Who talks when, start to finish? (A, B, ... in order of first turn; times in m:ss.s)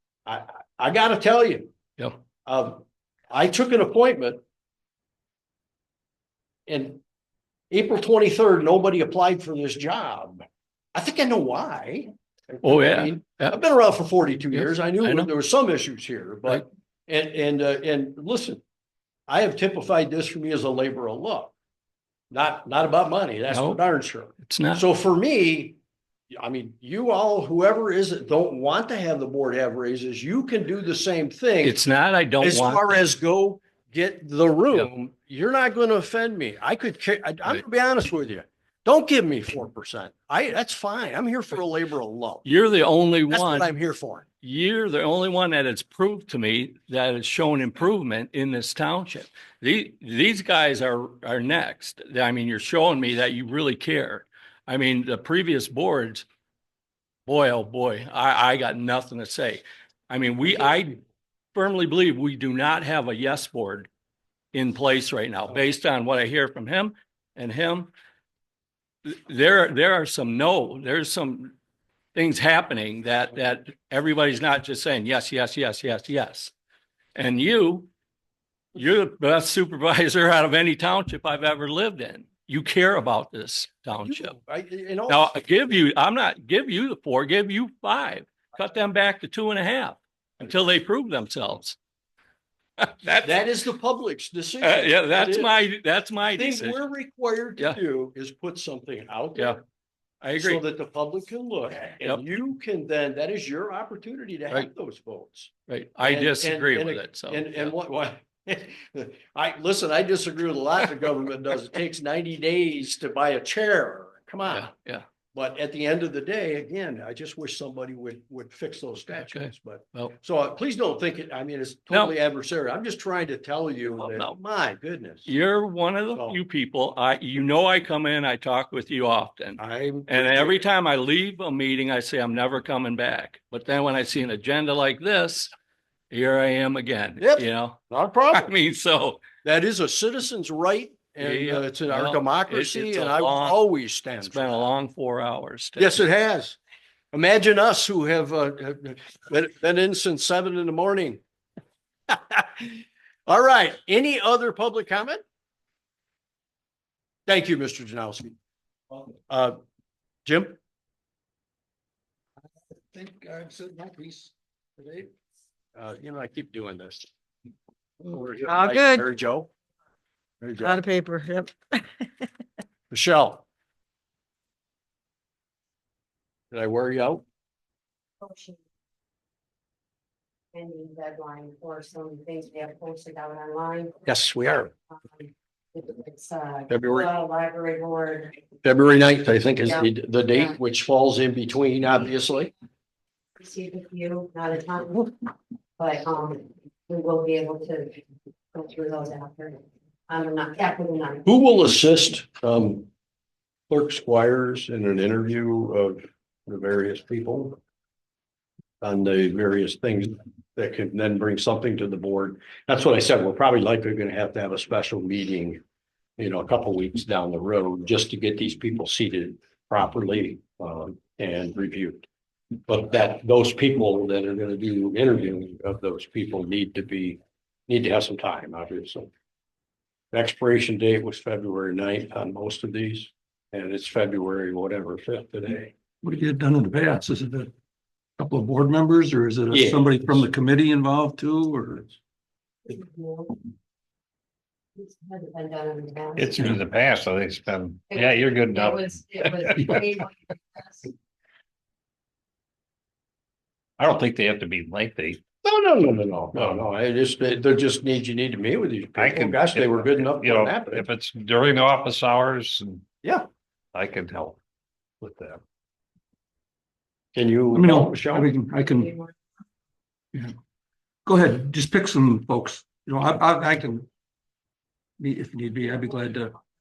0:00.3-0:01.7 A
0:02.5-0:04.4 A
0:06.7-0:07.0 A
0:07.7-0:10.4 A
0:10.9-0:18.6 A
0:12.6-0:13.6 B
0:14.5-0:15.3 B
0:19.3-0:21.5 A
0:22.3-0:25.8 A
0:23.5-0:23.8 B
0:24.4-0:24.8 B
0:26.3-0:31.8 A
0:31.6-0:33.0 B
0:32.4-0:42.5 A
0:42.4-0:43.7 B
0:43.3-0:44.3 A
0:44.4-0:56.2 B
0:57.3-1:01.0 B
1:01.6-1:03.9 B
1:04.5-1:07.9 B
1:09.0-1:11.5 B
1:12.2-1:16.5 B
1:17.2-1:17.9 B
1:18.8-1:24.4 B
1:23.9-1:25.3 A
1:25.1-1:31.8 B
1:32.8-1:33.3 B
1:33.2-1:35.7 A
1:34.6-1:36.8 B
1:36.2-1:39.6 A
1:40.2-1:40.6 B
1:40.4-1:45.5 A
1:45.7-1:47.7 B
1:46.0-1:54.7 A
1:54.5-1:55.0 B
1:55.3-2:05.3 A
1:59.2-2:00.1 B
2:03.8-2:04.4 B
2:05.3-2:15.5 B
2:06.1-2:06.4 A
2:09.6-2:10.7 A
2:16.1-2:17.8 B
2:17.2-2:18.5 A
2:18.3-2:19.2 B
2:19.4-2:24.7 A
2:21.2-2:23.6 B
2:24.2-2:26.0 B
2:25.8-2:26.6 A
2:27.1-2:31.2 A
2:32.1-2:35.2 A
2:37.3-2:38.4 A
2:39.3-2:39.6 A
2:40.2-2:40.6 A
2:42.9-2:44.3 C
2:45.8-2:47.1 A
2:48.0-2:49.5 A
2:48.4-2:49.1 D
2:50.4-2:50.8 A
2:50.6-2:51.8 D
2:52.9-2:53.4 A
2:56.5-2:57.2 A
2:58.2-2:58.6 E
3:00.5-3:04.1 E
3:04.1-3:04.7 A
3:04.9-3:08.3 E
3:06.7-3:07.1 A
3:08.6-3:12.5 A
3:09.6-3:10.5 E
3:13.4-3:15.1 E
3:15.8-3:18.0 E
3:18.5-3:21.3 E
3:21.3-3:22.9 A
3:23.7-3:27.6 A
3:28.8-3:35.6 A
3:36.2-3:42.1 A
3:42.7-3:49.1 A
3:50.1-3:55.7 A
3:56.0-3:57.5 C
3:58.2-4:01.9 C
3:59.5-4:00.3 A
4:02.7-4:03.4 E
4:04.8-4:06.6 E
4:06.2-4:09.9 F
4:07.9-4:10.9 E
4:13.8-4:15.2 F
4:15.4-4:20.8 A
4:19.0-4:22.8 F
4:23.7-4:24.4 F
4:25.0-4:25.4 F
4:27.2-4:28.3 A
4:27.5-4:28.9 C
4:28.6-4:29.1 E
4:31.1-4:33.9 C
4:35.0-4:36.4 C